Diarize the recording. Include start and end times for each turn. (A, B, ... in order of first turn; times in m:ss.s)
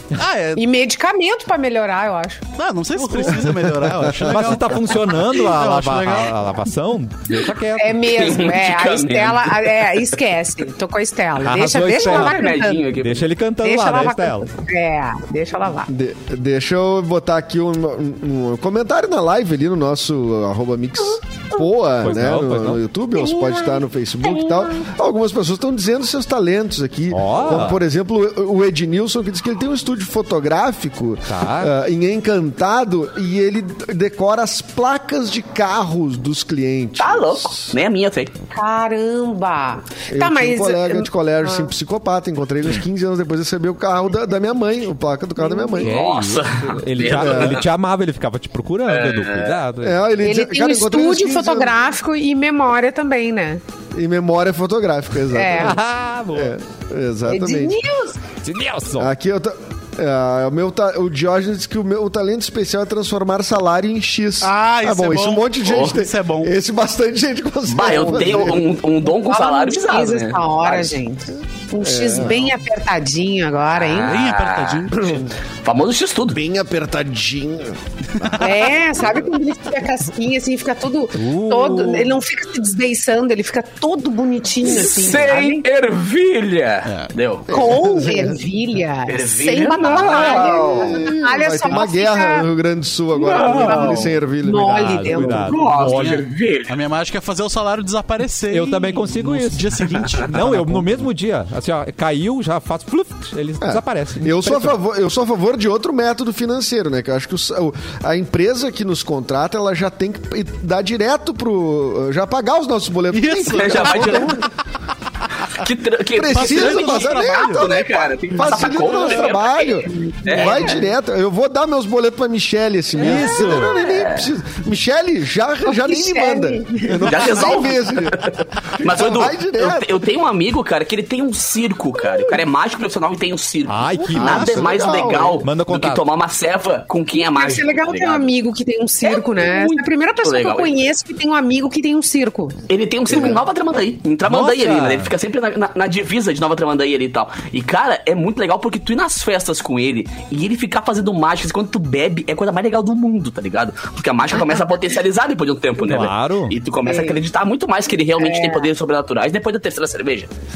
0:00.2-0:00.6 A
0:00.5-0:02.4 B
0:02.6-0:06.4 A
0:03.5-0:04.3 C
0:04.1-0:08.1 D
0:07.8-0:12.9 B
0:08.0-0:10.0 E
0:11.4-0:14.5 D
0:12.0-0:13.3 E
0:13.6-0:15.9 B
0:15.9-0:37.7 C
0:22.0-0:22.8 D
0:23.2-0:24.9 B
0:27.1-0:27.8 D
0:31.3-0:31.7 D
0:37.0-0:38.3 E
0:38.5-0:41.7 B
0:40.1-0:46.0 C
0:45.4-0:45.8 B
0:45.8-0:47.6 E
0:45.8-0:50.0 D
0:47.1-0:47.6 C
0:48.9-0:49.6 E
0:49.8-0:51.8 C
0:50.2-0:53.6 B
0:53.9-0:55.8 C
0:55.3-0:55.8 B
0:55.6-0:56.5 D
0:56.3-0:57.8 C
0:57.3-0:58.2 B
0:58.4-0:59.1 D
0:59.0-1:08.7 C
1:04.4-1:06.6 A
1:05.6-1:06.0 E
1:07.7-1:11.0 E
1:09.0-1:14.2 B
1:11.8-1:12.5 C
1:13.8-1:16.4 E
1:14.0-1:15.2 A
1:15.0-1:15.3 C
1:16.3-1:17.8 C
1:18.2-1:18.6 A
1:18.4-1:25.6 B
1:21.1-1:22.2 D
1:24.6-1:27.5 E
1:26.8-1:27.1 A
1:27.5-1:28.4 C
1:27.5-1:32.5 B
1:29.1-1:31.1 E
1:29.9-1:35.5 C
1:33.2-1:34.1 E
1:33.3-1:35.6 B
1:34.8-1:36.2 D
1:35.3-1:36.8 E
1:35.9-1:41.1 A
1:38.5-1:44.8 D
1:43.6-1:54.5 C
1:53.1-1:54.4 A
1:53.5-1:54.4 E
1:55.5-2:00.8 E
1:56.1-2:10.0 C
1:56.3-1:57.7 A
1:59.9-2:00.8 B
2:03.0-2:03.8 D
2:03.5-2:04.3 E
2:05.6-2:07.3 B
2:07.0-2:18.3 E
2:13.7-2:16.0 D
2:14.1-2:15.4 C
2:17.2-2:22.6 B
2:19.0-2:20.7 E
2:22.7-2:40.3 E
2:23.1-2:23.4 C
2:24.2-2:25.1 D
2:35.8-2:36.6 D
2:36.8-2:37.2 B
2:38.2-2:38.7 B